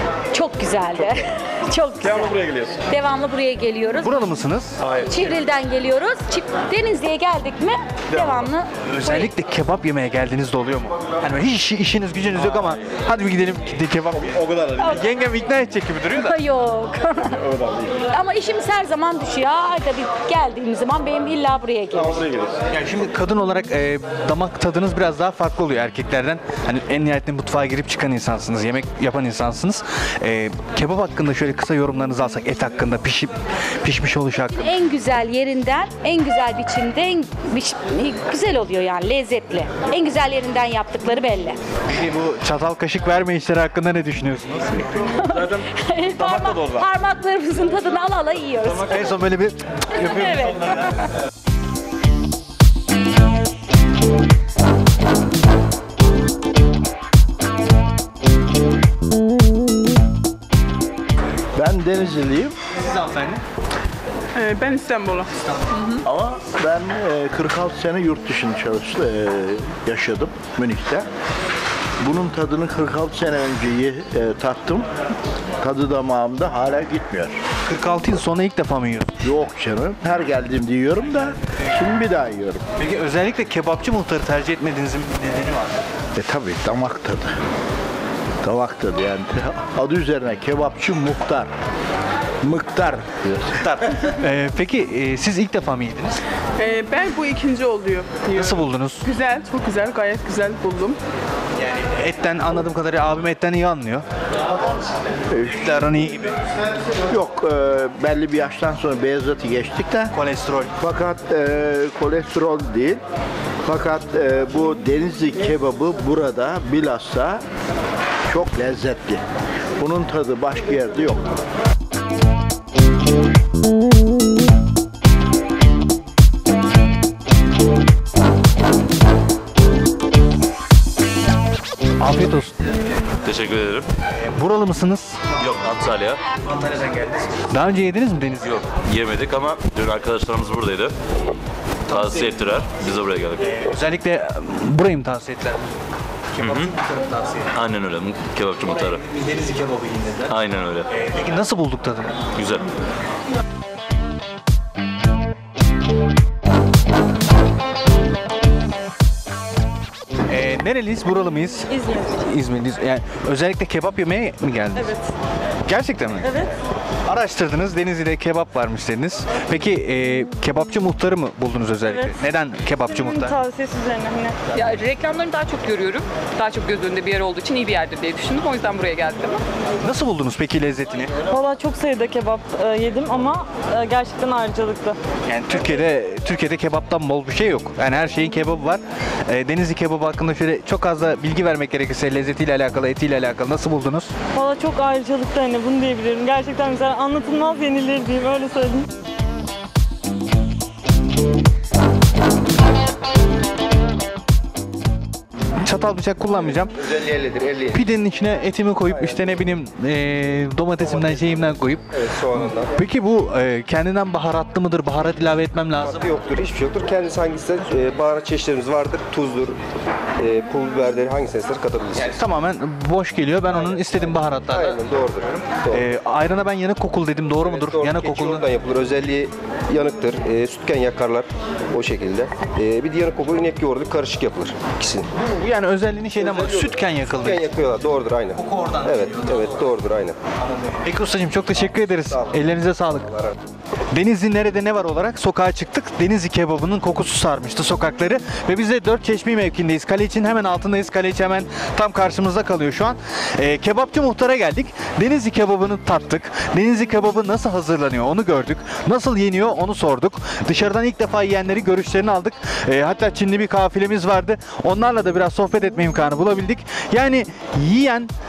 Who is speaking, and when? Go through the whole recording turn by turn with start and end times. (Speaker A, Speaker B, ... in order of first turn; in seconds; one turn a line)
Speaker A: 0.3-4.2
Speaker B: 4.0-4.8
Speaker A: 4.9-9.3
Speaker B: 8.9-16.4
Speaker A: 14.7-15.1
Speaker A: 16.1-22.4
Speaker B: 22.7-34.7
Speaker A: 34.5-41.6
Speaker B: 41.9-44.9
Speaker A: 45.2-49.2
Speaker B: 48.9-50.9
Speaker A: 50.0-50.8
Speaker C: 61.5-62.5
Speaker B: 62.8-63.4
Speaker D: 64.3-65.3
Speaker C: 66.0-71.1
Speaker C: 72.0-74.9
Speaker C: 75.6-77.4
Speaker B: 77.6-79.1
Speaker C: 79.2-82.6
Speaker B: 82.8-85.8
Speaker C: 86.2-87.3
Speaker C: 88.4-91.5
Speaker C: 92.4-93.5
Speaker B: 93.6-96.2
Speaker D: 96.6-98.5
Speaker B: 98.3-99.0
Speaker D: 99.0-101.0
Speaker B: 101.6-104.0
Speaker C: 105.3-105.8
Speaker B: 105.5-106.4
Speaker C: 107.1-110.1
Speaker B: 110.1-110.7
Speaker C: 110.8-113.0
Speaker C: 113.6-117.4
Speaker C: 118.3-119.2
Speaker C: 119.8-121.3
Speaker B: 132.0-132.5
Speaker E: 133.2-133.9
Speaker B: 134.1-135.2
Speaker E: 135.4-136.2
Speaker B: 136.4-138.6
Speaker E: 138.4-140.9
Speaker E: 141.9-143.5
Speaker B: 141.9-142.4
Speaker B: 143.4-145.7
Speaker B: 146.3-147.5
Speaker E: 146.4-146.7
Speaker E: 147.5-149.1
Speaker B: 148.6-152.2
Speaker E: 150.3-150.9
Speaker E: 152.3-152.6
Speaker B: 160.3-164.9
Speaker F: 161.8-162.1
Speaker F: 164.7-165.0
Speaker B: 165.6-166.3
Speaker F: 166.2-166.5
Speaker B: 167.1-173.4
Speaker F: 171.8-172.3
Speaker F: 172.9-174.4
Speaker G: 174.5-179.4
Speaker B: 179.8-181.1
Speaker F: 181.3-185.0
Speaker B: 185.2-194.1
Speaker F: 194.3-198.9
Speaker B: 205.6-206.7
Speaker H: 206.4-207.8
Speaker B: 207.7-211.9
Speaker H: 208.8-209.4
Speaker H: 210.8-212.8
Speaker B: 212.7-216.0
Speaker H: 215.8-219.6
Speaker H: 220.2-222.2
Speaker B: 222.0-224.8
Speaker H: 224.5-225.9
Speaker B: 225.7-228.4
Speaker H: 227.4-235.1
Speaker B: 235.2-237.4
Speaker H: 236.2-240.2
Speaker B: 238.3-239.6
Speaker B: 240.5-243.1
Speaker H: 242.1-242.4
Speaker H: 243.1-243.3
Speaker B: 243.9-268.1